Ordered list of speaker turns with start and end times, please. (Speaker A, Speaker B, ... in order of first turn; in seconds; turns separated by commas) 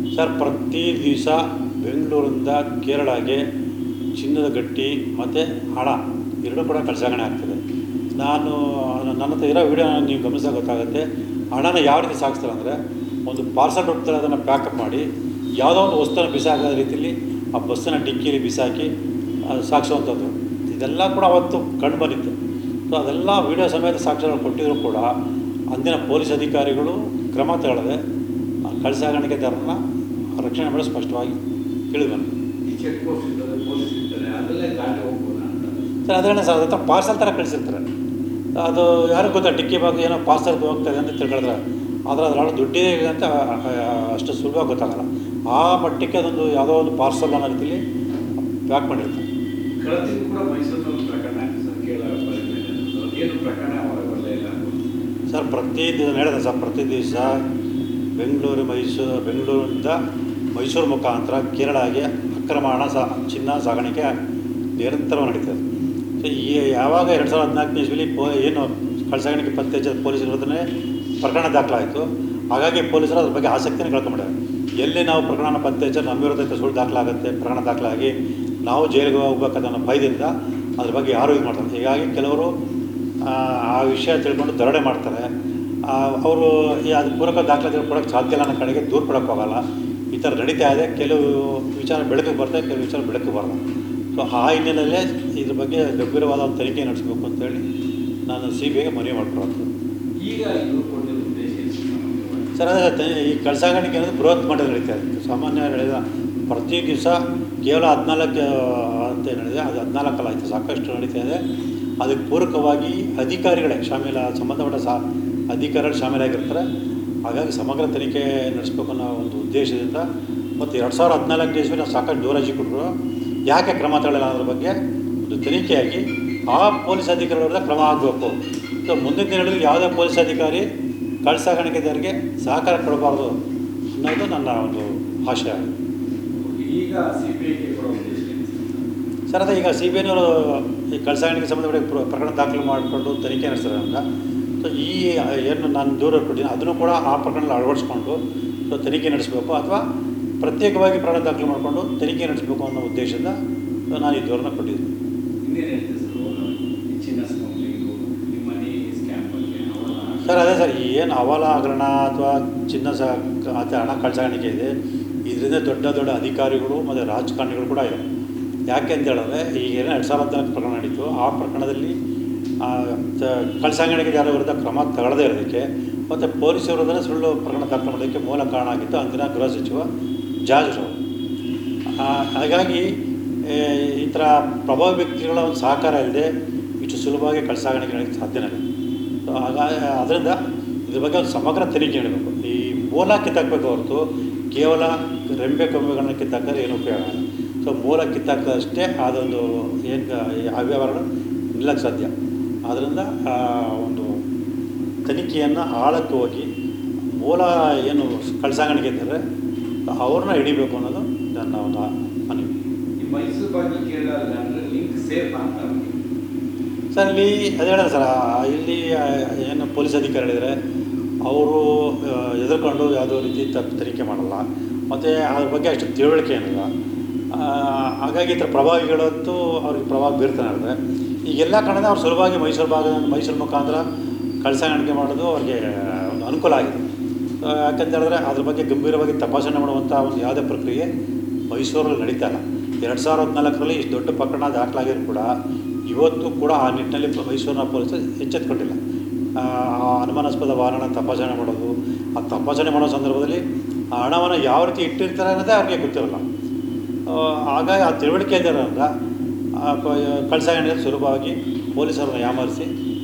Speaker A: 0.1-3.4, Speaker A: 4.2-7.6, Speaker A: 8.1-15.1, Speaker A: 15.6-18.9, Speaker A: 19.5-22.4, Speaker A: 22.9-25.1, Speaker A: 25.7-28.0, Speaker A: 28.7-29.8, Speaker A: 30.4-31.4, Speaker A: 31.9-32.3, Speaker B: 32.6-35.9, Speaker A: 36.1-37.8, Speaker A: 38.5-47.8, Speaker A: 48.6-49.2, Speaker B: 49.8-54.8, Speaker A: 55.3-57.4, Speaker A: 58.2-60.0, Speaker A: 60.5-64.1, Speaker A: 64.8-65.6, Speaker A: 66.2-70.7, Speaker A: 71.2-78.1, Speaker A: 78.7-82.5, Speaker A: 83.2-85.3, Speaker A: 85.8-89.6, Speaker A: 90.1-93.6, Speaker A: 94.1-97.6, Speaker A: 98.3-99.7, Speaker B: 100.2-102.5, Speaker A: 102.6-111.4, Speaker A: 112.0-115.0, Speaker A: 115.5-116.6, Speaker A: 117.2-120.0, Speaker A: 120.6-122.9, Speaker A: 123.5-130.7, Speaker A: 131.2-133.3, Speaker A: 133.9-135.7, Speaker B: 136.4-138.8, Speaker A: 139.3-144.0, Speaker A: 144.6-148.2, Speaker A: 148.7-149.8, Speaker A: 150.4-153.3, Speaker A: 153.9-154.9, Speaker B: 155.4-160.5, Speaker A: 160.3-164.7, Speaker A: 165.3-168.0, Speaker A: 168.7-171.9, Speaker A: 172.6-179.8, Speaker A: 180.4-181.0, Speaker A: 182.0-182.9, Speaker A: 183.4-186.3, Speaker A: 186.8-188.6, Speaker A: 189.3-201.0, Speaker A: 201.5-202.1, Speaker A: 202.7-204.1, Speaker A: 205.1-206.5, Speaker A: 207.1-209.2, Speaker A: 209.9-212.5, Speaker B: 213.0-216.0, Speaker A: 216.9-220.5, Speaker A: 221.2-226.7, Speaker A: 227.3-230.8, Speaker A: 231.3-233.8, Speaker A: 234.4-236.8, Speaker A: 237.4-240.9, Speaker A: 241.5-245.3, Speaker A: 245.9-248.8, Speaker A: 249.4-253.4, Speaker A: 253.9-256.2, Speaker A: 257.1-258.9, Speaker A: 259.5-262.7